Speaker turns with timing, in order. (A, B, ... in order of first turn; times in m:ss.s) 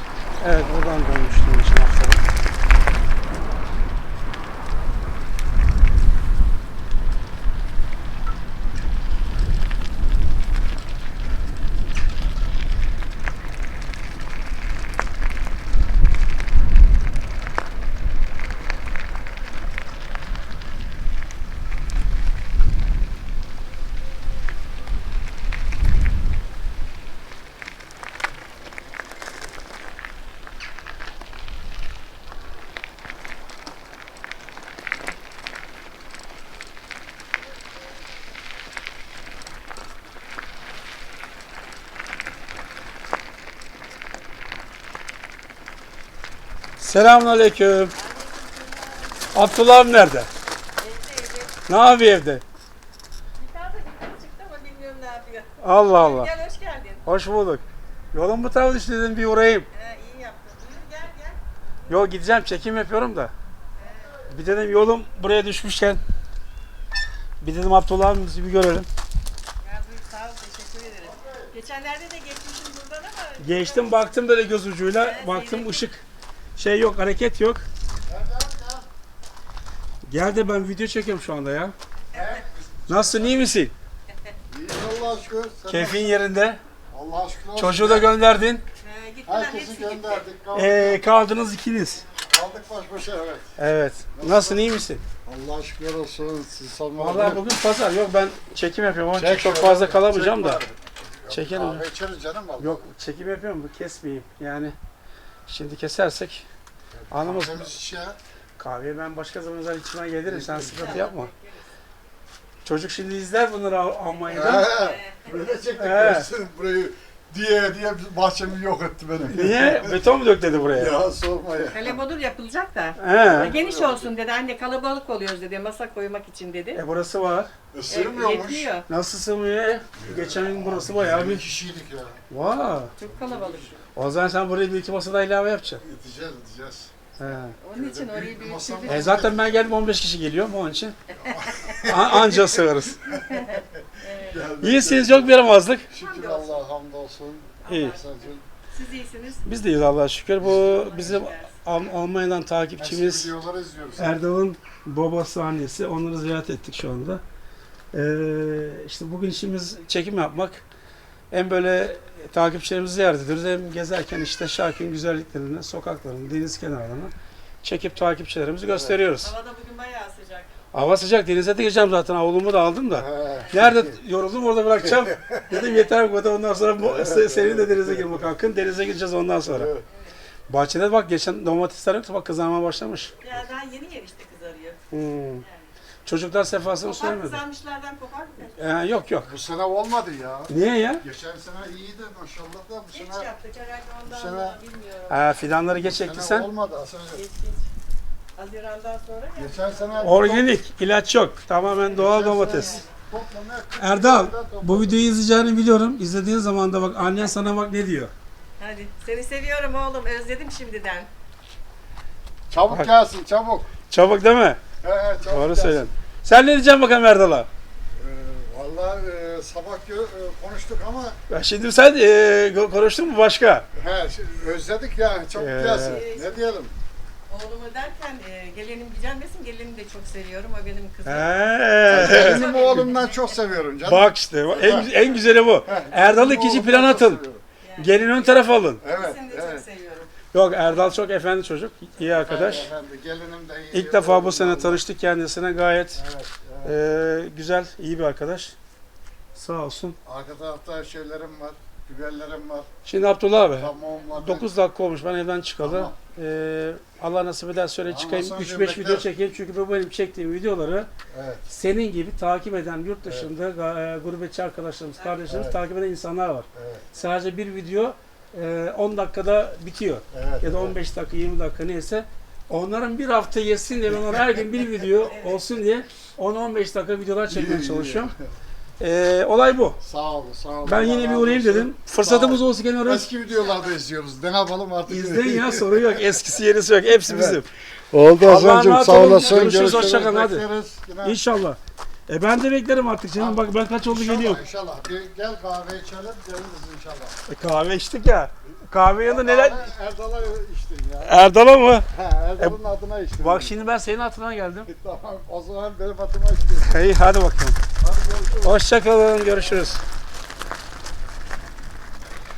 0:00.4-0:02.2 A
0:46.8-0:47.9 A
0:47.9-0:49.5 B
0:49.3-0:50.3 A
0:50.8-0:51.6 B
0:51.7-0:52.4 A
0:53.4-0:57.0 B
0:55.6-0:56.3 A
0:57.0-0:59.7 A
0:59.7-1:02.1 B
1:01.9-1:03.3 A
1:03.8-1:04.2 B
1:04.3-1:06.0 A
1:07.4-1:08.9 A
1:09.6-1:14.0 B
1:11.0-1:11.5 C
1:13.4-1:16.0 A
1:15.0-1:15.9 B
1:16.6-1:17.6 A
1:18.1-1:18.8 C
1:20.0-1:21.7 A
1:22.1-1:22.4 B
1:22.1-1:23.5 C
1:22.9-1:23.7 A
1:24.5-1:26.2 C
1:25.7-1:26.6 A
1:26.9-1:28.1 C
1:27.6-1:28.6 A
1:28.8-1:30.2 B
1:29.2-1:31.0 C
1:30.5-1:32.0 A
1:32.2-1:33.5 C
1:33.6-1:35.0 A
1:34.1-1:34.6 C
1:35.2-1:37.4 C
1:37.0-1:40.6 A
1:39.1-1:42.8 C
1:41.3-1:41.9 A
1:42.6-1:44.8 A
1:45.5-1:46.5 A
1:47.0-1:48.2 C
1:47.1-1:47.7 A
1:48.6-1:51.3 A
1:50.3-1:50.9 C
1:50.6-1:51.6 B
1:52.6-1:54.8 A
1:54.3-1:55.4 B
1:54.3-2:00.0 C
1:55.8-1:56.3 A
1:59.3-2:01.0 A
2:00.7-2:02.0 C
2:01.7-2:06.8 B
2:03.0-2:03.5 A
2:03.2-2:04.1 C
2:06.7-2:07.5 A
2:07.7-2:08.7 C
2:07.9-2:08.9 B
2:08.9-2:11.4 A
2:10.0-2:12.2 C
2:12.3-2:12.9 A
2:13.0-2:13.8 B
2:13.1-2:13.7 C
2:13.9-2:15.8 A
2:15.8-2:17.0 C
2:17.2-2:17.6 A
2:17.6-2:19.2 B
2:17.7-2:19.6 C
2:18.9-2:21.0 A
2:21.2-2:22.4 C
2:21.8-2:23.1 A
2:23.1-2:24.5 B
2:24.2-2:25.4 C
2:24.6-2:25.9 A
2:25.9-2:28.4 C
2:25.9-2:26.6 B
2:27.6-2:29.5 B
2:27.7-2:28.0 A
2:29.4-2:33.3 A
2:30.5-2:31.5 B
2:32.8-2:34.1 C
2:34.0-2:37.2 A
2:37.9-2:40.6 A
2:41.3-2:47.1 A
2:47.6-2:49.3 A
2:48.6-2:49.0 C
2:49.2-2:50.5 B
2:50.7-2:59.7 A
2:52.9-2:54.0 C
2:55.5-2:55.9 B
2:56.8-2:58.3 C
2:59.5-2:59.8 C
2:59.9-3:00.1 B
3:00.5-3:03.1 A
3:03.2-3:04.8 B
3:04.9-3:05.4 A
3:05.4-3:05.7 B
3:06.0-3:07.4 A
3:06.8-3:08.6 B
3:08.6-3:09.3 A
3:09.2-3:13.3 C
3:10.5-3:11.0 A
3:12.9-3:15.4 B
3:14.0-3:14.6 C
3:15.1-3:16.5 A
3:15.7-3:17.2 C
3:17.1-3:17.7 B
3:18.4-3:20.2 B
3:19.4-3:20.5 C
3:20.0-3:22.8 A
3:21.6-3:23.0 B
3:22.0-3:25.0 C
3:23.8-3:28.1 A
3:28.6-3:31.1 B
3:32.5-3:33.7 C
3:33.9-3:34.6 A
3:34.8-3:35.9 C
3:35.2-3:37.5 A
3:37.9-3:41.2 C
3:41.3-3:43.6 A
3:43.7-3:46.7 C
3:45.4-3:46.0 A
3:45.8-3:46.4 B
3:47.3-3:53.4 B
3:51.0-3:52.4 A
3:51.8-3:54.9 C
3:53.8-3:57.2 A
3:54.9-3:55.3 B
3:55.6-3:57.4 C
3:57.6-4:01.0 B
3:57.8-3:58.8 A
3:58.8-3:59.6 C
4:00.3-4:02.7 A
4:02.0-4:04.8 C
4:03.7-4:06.0 A
4:05.9-4:06.8 C
4:06.6-4:08.6 A
4:09.3-4:10.0 A
4:10.0-4:12.7 C
4:12.8-4:20.9 A
4:13.6-4:14.5 C
4:15.6-4:16.0 C
4:17.8-4:19.0 C
4:21.1-4:21.4 C
4:21.5-4:38.1 A
4:25.0-4:25.2 B
4:25.3-4:25.6 C
4:26.5-4:26.8 C
4:30.1-4:30.8 C
4:34.9-4:35.5 B
4:37.3-4:38.2 C
4:38.8-4:39.8 A
4:39.8-4:46.1 C
4:40.6-4:43.1 A
4:44.9-4:47.5 A
4:47.1-4:47.4 C
4:47.9-4:51.2 C
4:48.2-4:50.5 A
4:51.0-4:54.4 A
4:53.2-4:57.2 C
4:57.3-4:59.7 A
4:59.0-5:01.2 C
5:01.0-5:02.6 A
5:01.9-5:03.5 C
5:03.2-5:04.7 A
5:04.7-5:06.9 C
5:06.6-5:07.6 A
5:07.8-5:08.6 C
5:08.4-5:09.8 A